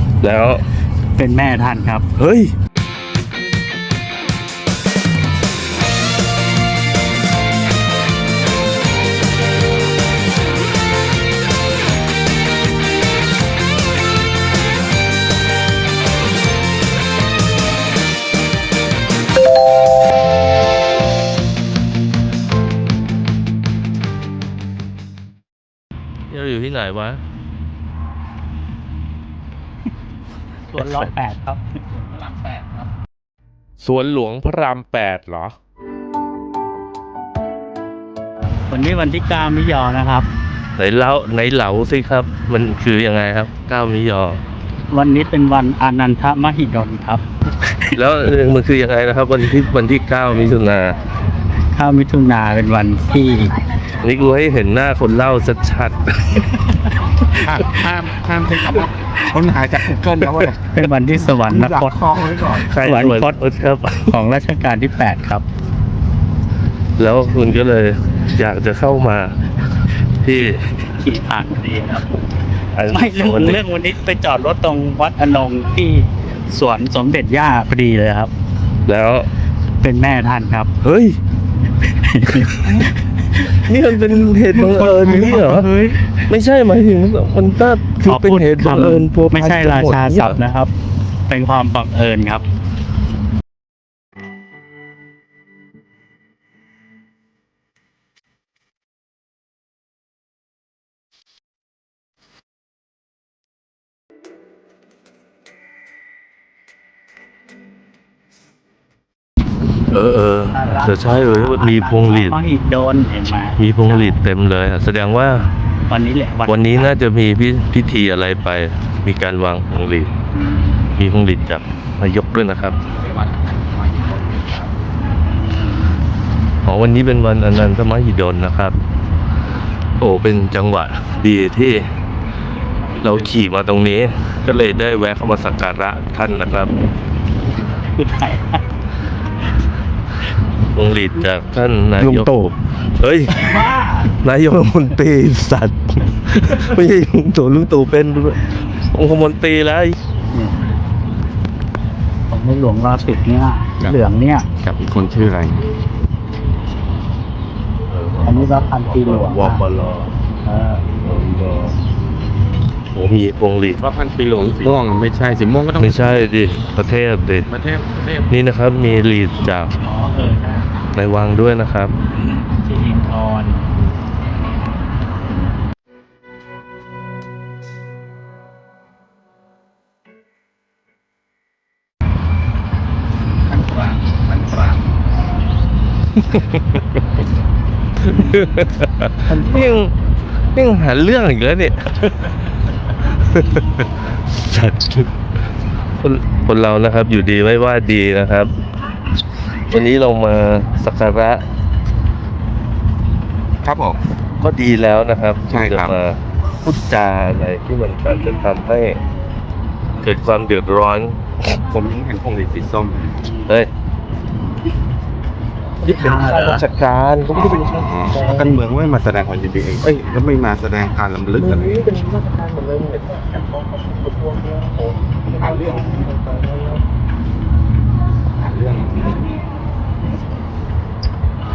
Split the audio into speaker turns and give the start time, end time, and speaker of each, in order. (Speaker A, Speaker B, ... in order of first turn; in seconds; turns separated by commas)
Speaker A: 0.2-0.6, Speaker B: 1.1-2.1, Speaker A: 2.2-2.5, Speaker A: 26.3-27.2, Speaker B: 30.7-31.8, Speaker A: 30.7-31.1, Speaker A: 33.8-35.5, Speaker B: 38.7-40.3, Speaker A: 40.8-44.4, Speaker B: 44.9-47.2, Speaker A: 47.9-51.0, Speaker B: 51.7-53.6, Speaker A: 54.0-56.5, Speaker C: 57.3-60.6, Speaker B: 60.7-62.0, Speaker C: 61.5-62.7, Speaker A: 62.6-64.1, Speaker B: 62.8-63.4, Speaker B: 64.0-65.4, Speaker A: 67.0-69.3, Speaker A: 70.2-70.6, Speaker B: 70.8-72.1, Speaker A: 72.7-73.6, Speaker B: 72.9-78.3, Speaker A: 78.8-79.3, Speaker B: 79.8-80.7, Speaker A: 80.8-81.2, Speaker B: 81.9-82.9, Speaker A: 82.4-82.8, Speaker A: 83.4-90.4, Speaker B: 84.5-86.0, Speaker B: 88.0-90.7, Speaker B: 91.3-92.4, Speaker A: 109.9-112.4, Speaker B: 110.5-114.2, Speaker A: 113.6-115.5, Speaker B: 115.9-116.9, Speaker A: 116.5-120.1, Speaker A: 121.0-122.8, Speaker C: 123.0-124.7, Speaker A: 126.6-128.8, Speaker A: 130.0-131.9, Speaker A: 133.0-136.7, Speaker B: 137.9-138.6, Speaker A: 140.7-142.3, Speaker C: 142.0-142.5, Speaker A: 143.0-150.0, Speaker B: 143.4-144.0, Speaker B: 150.3-150.6, Speaker B: 152.3-154.5, Speaker C: 154.6-155.6, Speaker A: 157.9-160.1, Speaker B: 158.2-159.6, Speaker B: 160.4-160.8, Speaker A: 161.0-161.7, Speaker A: 162.9-163.8, Speaker C: 163.8-166.2, Speaker A: 165.8-167.5, Speaker C: 167.5-168.3, Speaker A: 168.3-169.7, Speaker B: 169.8-170.7, Speaker A: 170.9-171.9, Speaker B: 172.5-173.7, Speaker C: 183.6-184.7, Speaker A: 186.2-187.0, Speaker A: 188.1-189.9, Speaker A: 190.5-192.3, Speaker A: 193.2-195.1, Speaker A: 196.0-198.5, Speaker A: 199.7-201.4, Speaker C: 203.6-204.0, Speaker A: 204.4-209.0, Speaker C: 205.5-206.0, Speaker A: 210.0-211.2, Speaker C: 211.5-213.3, Speaker A: 215.8-218.4, Speaker B: 215.9-216.6, Speaker C: 217.3-221.8, Speaker A: 221.3-225.0, Speaker C: 225.2-226.1, Speaker A: 225.5-226.8, Speaker C: 228.4-229.2